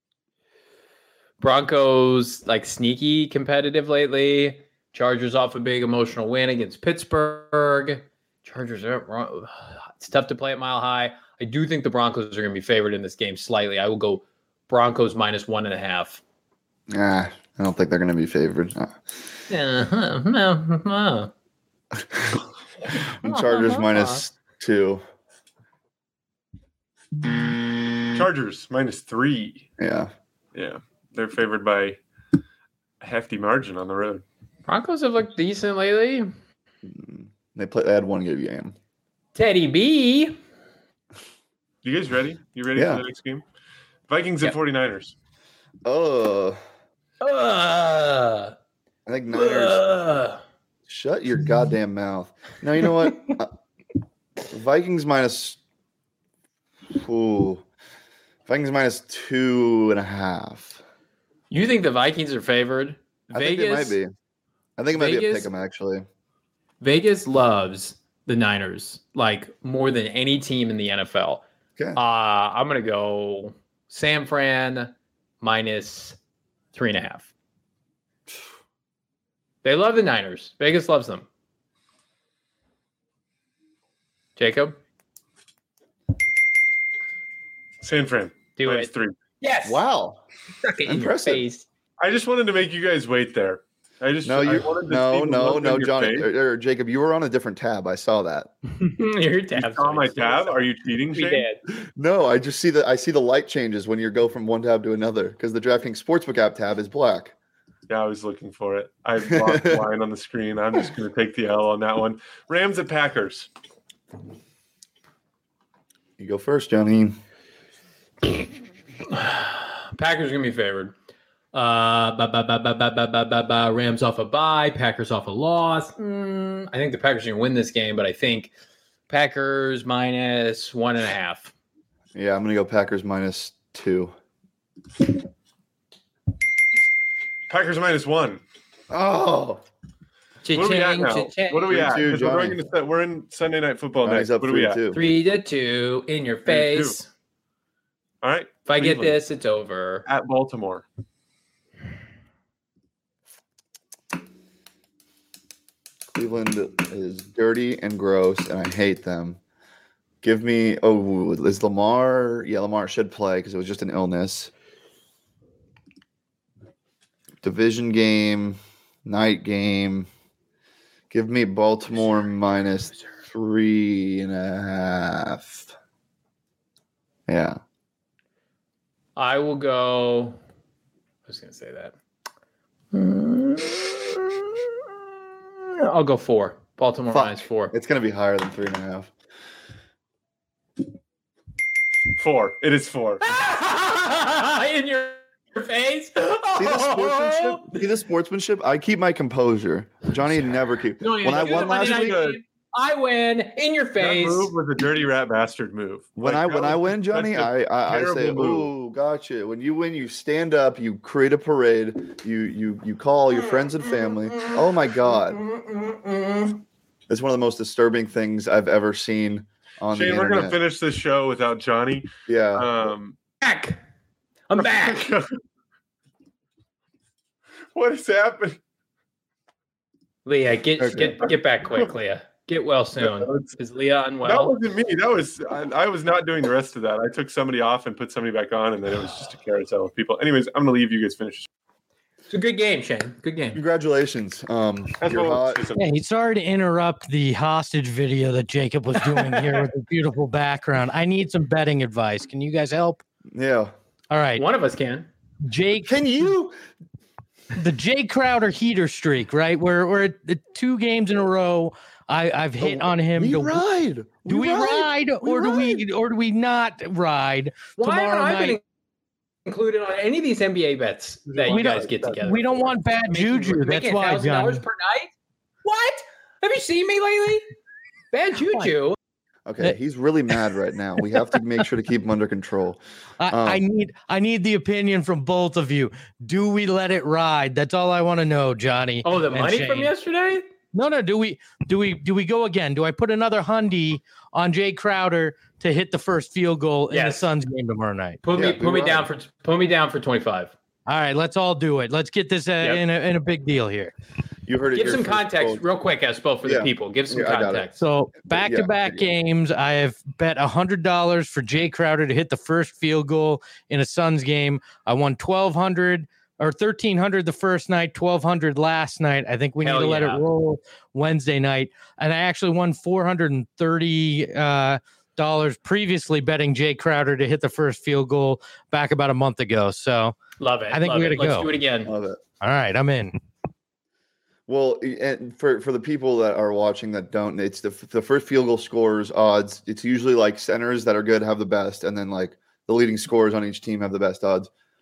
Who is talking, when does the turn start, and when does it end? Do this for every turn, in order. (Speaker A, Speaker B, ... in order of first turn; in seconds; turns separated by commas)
Speaker A: 1.4-16.2, Speaker B: 16.9-19.0, Speaker A: 19.5-21.3, Speaker B: 21.9-25.0, Speaker A: 23.2-24.2, Speaker C: 28.1-29.7, Speaker B: 29.8-30.1, Speaker C: 30.5-32.0, Speaker C: 33.0-34.2, Speaker A: 34.7-36.3, Speaker B: 36.8-38.7, Speaker A: 39.3-40.4, Speaker C: 41.8-43.4, Speaker B: 42.8-43.0, Speaker C: 44.1-45.1, Speaker B: 45.8-46.6, Speaker A: 47.2-48.5, Speaker B: 49.0-49.8, Speaker A: 49.3-50.4, Speaker B: 50.9-53.5, Speaker B: 54.5-55.6, Speaker B: 56.9-57.6, Speaker B: 58.5-60.8, Speaker A: 61.5-64.0, Speaker B: 63.3-64.1, Speaker B: 64.8-66.0, Speaker A: 64.9-65.5, Speaker A: 66.8-71.4, Speaker A: 71.9-76.2, Speaker A: 76.7-77.3, Speaker A: 79.6-81.3, Speaker A: 84.4-84.8, Speaker C: 87.8-89.1, Speaker A: 88.6-88.9, Speaker A: 89.4-89.8, Speaker B: 89.6-90.2, Speaker A: 90.6-91.7, Speaker B: 90.8-91.4, Speaker C: 92.0-96.3, Speaker B: 94.2-98.5, Speaker A: 98.7-101.6, Speaker C: 99.5-101.5, Speaker B: 101.7-107.3, Speaker C: 107.9-113.5, Speaker B: 109.2-109.8, Speaker B: 116.2-117.2, Speaker A: 119.1-120.9, Speaker A: 121.5-128.5, Speaker A: 129.1-131.5, Speaker B: 132.1-134.1, Speaker C: 137.5-138.4, Speaker B: 138.9-139.6, Speaker A: 140.4-141.9, Speaker C: 140.5-144.8, Speaker B: 141.7-142.6, Speaker B: 144.0-145.0, Speaker A: 144.9-147.1, Speaker C: 146.5-147.0, Speaker C: 148.2-149.2, Speaker A: 148.7-150.0, Speaker C: 150.1-150.8, Speaker B: 156.1-159.4, Speaker B: 160.2-164.5, Speaker B: 167.4-170.1, Speaker B: 171.1-175.7, Speaker B: 177.3-177.6, Speaker A: 179.2-180.4, Speaker A: 181.2-181.9, Speaker A: 182.9-184.8, Speaker A: 185.6-187.7, Speaker B: 187.1-189.1, Speaker C: 192.2-193.2, Speaker A: 193.2-197.7, Speaker B: 196.6-202.2, Speaker A: 201.0-204.5, Speaker C: 201.3-202.4, Speaker C: 204.0-208.7, Speaker B: 206.2-215.4, Speaker A: 215.3-216.6, Speaker B: 217.1-220.6, Speaker C: 219.9-223.2, Speaker B: 222.3-222.7, Speaker A: 223.4-223.8, Speaker A: 224.5-225.0, Speaker C: 224.6-225.3, Speaker C: 227.7-228.6, Speaker A: 230.2-234.5, Speaker B: 230.8-231.2, Speaker C: 233.0-233.6, Speaker C: 234.2-241.5, Speaker A: 242.3-243.6, Speaker B: 243.5-245.6, Speaker C: 245.0-245.8, Speaker D: 245.8-253.0, Speaker A: 249.0-249.5, Speaker B: 253.3-253.7, Speaker D: 254.1-254.4, Speaker A: 254.3-255.1, Speaker D: 255.4-255.9, Speaker B: 255.8-256.6, Speaker D: 257.5-263.6, Speaker B: 262.6-265.8, Speaker D: 264.2-268.6, Speaker A: 267.8-268.6, Speaker A: 269.4-275.1, Speaker C: 271.3-271.7, Speaker D: 271.5-274.6, Speaker A: 275.6-277.4, Speaker A: 278.1-279.0, Speaker B: 279.5-283.6, Speaker D: 283.2-289.9, Speaker A: 289.0-290.4, Speaker D: 290.7-298.2, Speaker A: 296.9-297.3, Speaker A: 298.2-300.5, Speaker B: 298.3-299.1, Speaker D: 300.9-303.9, Speaker B: 304.5-305.6, Speaker A: 304.7-307.7, Speaker B: 306.4-307.7, Speaker D: 307.8-330.2, Speaker B: 308.2-309.1, Speaker A: 319.6-320.2, Speaker A: 330.4-331.9, Speaker D: 330.7-331.5, Speaker B: 331.8-332.2, Speaker D: 332.4-333.2, Speaker B: 334.5-344.5